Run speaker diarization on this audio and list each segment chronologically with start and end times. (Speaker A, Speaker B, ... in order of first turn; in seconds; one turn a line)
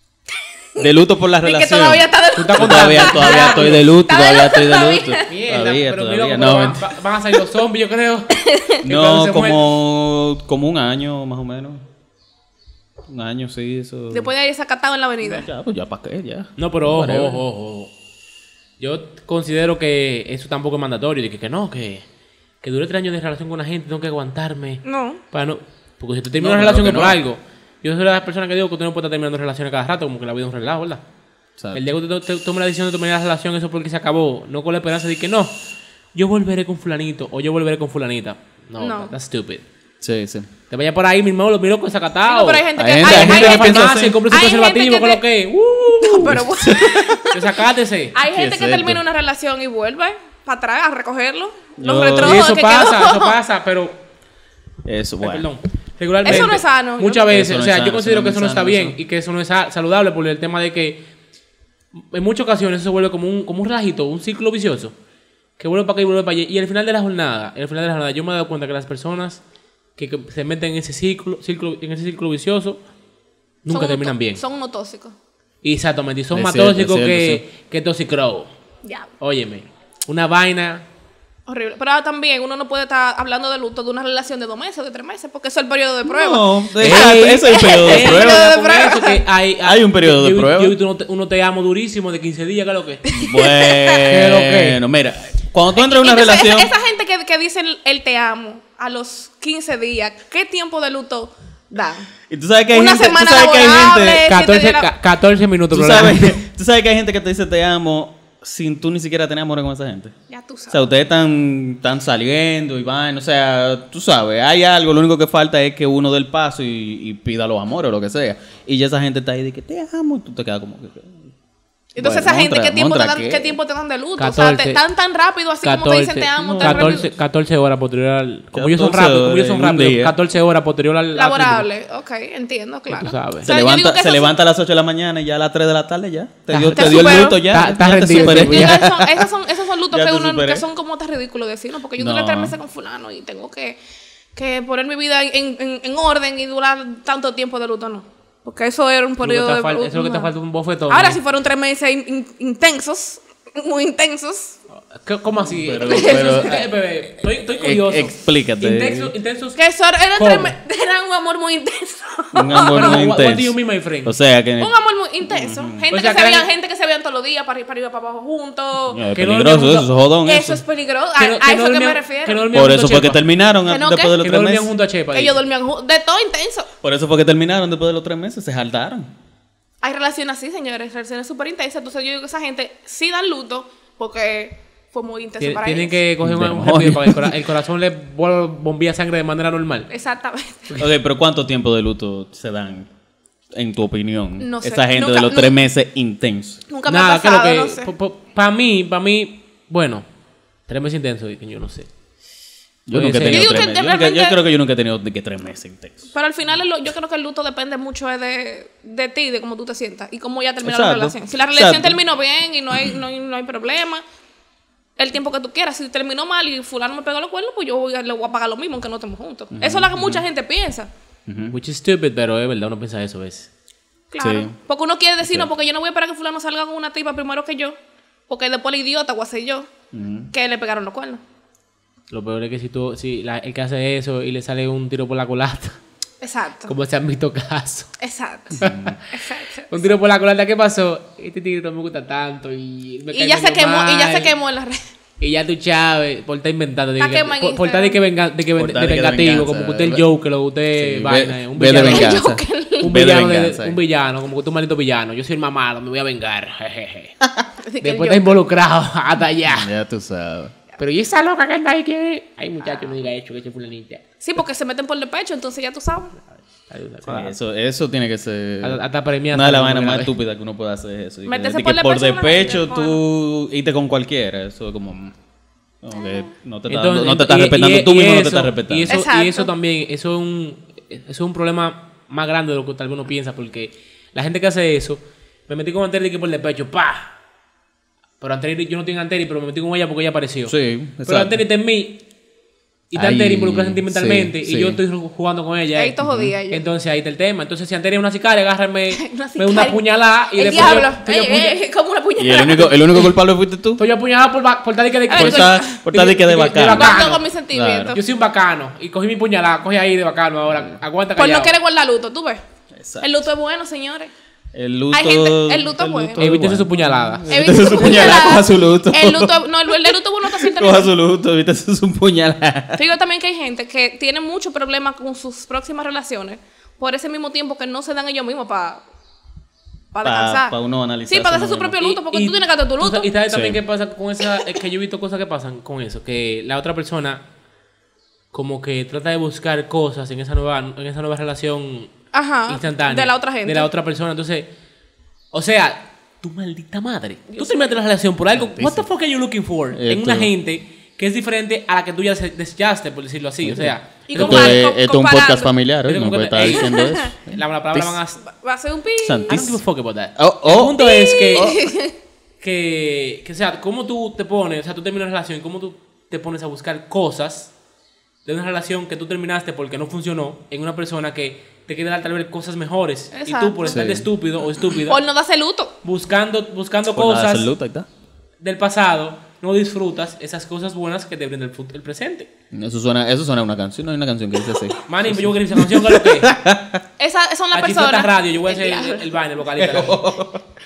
Speaker A: 0.8-6.8
Speaker B: 1.4-5.3
Speaker C: 2.4-3.8
Speaker C: 5.3-9.6
Speaker B: 8.4-8.8
Speaker A: 8.8-11.8
Speaker A: 13.1-14.3
Speaker B: 14.1-15.5
Speaker A: 15.2-17.4
Speaker C: 16.6-17.9
Speaker C: 18.8-22.0
Speaker C: 22.6-31.0
Speaker B: 24.8-25.2
Speaker A: 26.3-27.2
Speaker A: 31.6-31.8
Speaker C: 31.7-35.5
Speaker C: 36.1-39.6
Speaker B: 38.8-39.1
Speaker A: 40.0-40.5
Speaker C: 40.7-46.4
Speaker B: 42.3-45.2
Speaker A: 42.8-44.2
Speaker B: 46.0-47.5
Speaker A: 46.4-47.2
Speaker C: 47.3-48.1
Speaker B: 48.1-53.4
Speaker A: 48.3-49.0
Speaker A: 51.8-52.5
Speaker C: 52.2-54.0
Speaker A: 54.8-55.5
Speaker C: 55.2-61.0
Speaker B: 56.2-57.3
Speaker A: 57.2-59.0
Speaker C: 62.0-64.9
Speaker C: 65.6-69.4
Speaker C: 70.0-72.8
Speaker C: 73.6-74.4
Speaker B: 73.7-75.1
Speaker C: 75.6-78.5
Speaker A: 76.3-77.4
Speaker B: 78.8-79.1
Speaker C: 79.2-80.8
Speaker B: 81.5-89.2
Speaker A: 86.0-88.5
Speaker C: 86.8-93.1
Speaker A: 89.6-90.8
Speaker B: 93.1-94.0
Speaker A: 93.1-96.7
Speaker C: 94.1-94.8
Speaker B: 95.8-102.1
Speaker A: 102.3-104.2
Speaker B: 102.7-104.9
Speaker C: 104.3-106.4
Speaker A: 105.7-110.1
Speaker B: 110.3-110.9
Speaker A: 110.7-121.2
Speaker B: 121.9-127.1
Speaker A: 122.0-123.6
Speaker C: 124.2-124.8
Speaker C: 125.6-131.7
Speaker A: 126.4-127.0
Speaker A: 128.5-130.2
Speaker B: 131.1-134.3
Speaker C: 132.9-133.5
Speaker A: 133.4-139.3
Speaker C: 136.5-138.8
Speaker B: 136.8-137.5
Speaker B: 138.0-143.8
Speaker A: 139.9-140.6
Speaker A: 142.0-142.6
Speaker B: 144.4-150.3
Speaker C: 149.2-151.2
Speaker B: 150.9-154.6
Speaker C: 154.7-159.6
Speaker A: 155.4-156.7
Speaker B: 155.8-156.6
Speaker A: 157.5-159.1
Speaker B: 159.6-163.1
Speaker C: 160.2-160.5
Speaker A: 162.3-164.7
Speaker C: 162.8-164.1
Speaker B: 164.6-169.0
Speaker A: 165.2-165.9
Speaker C: 165.9-166.5
Speaker A: 168.9-170.6
Speaker C: 169.1-169.9
Speaker B: 170.2-172.6
Speaker C: 171.2-173.2
Speaker A: 172.5-174.7
Speaker B: 173.6-174.2
Speaker C: 174.2-175.3
Speaker B: 175.1-176.7
Speaker A: 176.8-179.1
Speaker B: 179.8-186.0
Speaker C: 185.4-189.9
Speaker A: 186.2-187.4
Speaker B: 189.9-190.8
Speaker A: 190.8-192.9
Speaker A: 193.5-196.6
Speaker B: 194.4-195.5
Speaker B: 196.7-197.9
Speaker C: 196.9-200.1
Speaker C: 200.7-201.9
Speaker A: 202.9-206.1
Speaker C: 202.9-203.7
Speaker B: 203.3-204.4
Speaker B: 206.1-214.0
Speaker A: 210.6-212.0
Speaker B: 215.0-220.9
Speaker A: 219.5-220.2
Speaker A: 221.3-221.6
Speaker C: 221.5-223.5
Speaker B: 224.1-227.8
Speaker A: 224.2-224.5
Speaker A: 225.2-225.5
Speaker B: 228.3-229.7
Speaker A: 229.9-230.3
Speaker B: 230.3-231.2
Speaker C: 232.1-235.8
Speaker B: 236.2-236.7
Speaker C: 236.7-237.9
Speaker B: 238.0-239.9
Speaker A: 238.5-239.0
Speaker C: 238.6-239.0
Speaker C: 239.7-244.3
Speaker B: 243.1-244.8
Speaker C: 245.2-252.2
Speaker B: 247.0-248.0
Speaker A: 248.6-250.1
Speaker A: 250.8-253.8
Speaker B: 251.6-252.9
Speaker C: 252.8-257.1
Speaker A: 257.2-257.5
Speaker B: 257.6-258.4
Speaker C: 257.8-259.7
Speaker A: 259.4-260.5
Speaker C: 260.8-264.0
Speaker B: 264.2-266.1
Speaker C: 266.7-267.3
Speaker A: 267.0-268.8
Speaker C: 268.6-270.1
Speaker A: 269.3-275.1
Speaker B: 271.2-273.0
Speaker A: 275.8-279.0
Speaker B: 275.9-276.3
Speaker C: 276.7-287.1
Speaker B: 278.9-279.5
Speaker C: 288.2-290.5
Speaker A: 290.4-291.4
Speaker C: 291.0-292.0
Speaker C: 292.9-296.0
Speaker A: 292.9-294.8
Speaker B: 295.8-296.6
Speaker A: 296.0-296.3
Speaker C: 296.5-301.5
Speaker B: 298.9-303.1
Speaker A: 300.5-300.9
Speaker A: 302.2-303.8
Speaker C: 303.8-307.2
Speaker B: 305.1-305.9
Speaker A: 305.1-307.0
Speaker B: 306.6-308.0
Speaker A: 307.5-308.0
Speaker C: 307.9-311.5
Speaker B: 311.2-312.4
Speaker A: 312.8-313.2
Speaker B: 313.0-314.1
Speaker A: 314.5-322.9
Speaker B: 314.9-316.2
Speaker C: 316.2-317.3
Speaker B: 317.3-320.9
Speaker B: 322.8-328.8
Speaker B: 329.9-330.6
Speaker A: 330.0-331.8
Speaker B: 331.1-333.1
Speaker C: 331.8-337.2
Speaker A: 333.3-333.6
Speaker B: 334.2-334.6
Speaker C: 338.3-341.9
Speaker B: 342.1-343.7
Speaker C: 342.5-344.5
Speaker C: 345.3-354.6
Speaker B: 347.3-347.7
Speaker A: 348.3-348.9
Speaker A: 349.7-350.3
Speaker A: 353.4-358.0
Speaker B: 354.1-355.5
Speaker C: 355.9-358.2
Speaker B: 356.4-357.1
Speaker B: 358.2-359.4
Speaker A: 359.0-359.6
Speaker C: 359.3-361.6
Speaker A: 360.1-361.7
Speaker B: 360.8-361.9
Speaker C: 362.4-367.5
Speaker C: 368.2-375.0
Speaker B: 373.1-373.8
Speaker A: 373.6-374.1
Speaker B: 374.9-375.7
Speaker C: 375.8-377.5
Speaker A: 376.9-377.9
Speaker C: 378.4-382.3
Speaker A: 382.5-386.8
Speaker C: 384.9-386.3
Speaker B: 387.0-389.1
Speaker C: 387.5-390.1
Speaker A: 389.6-390.4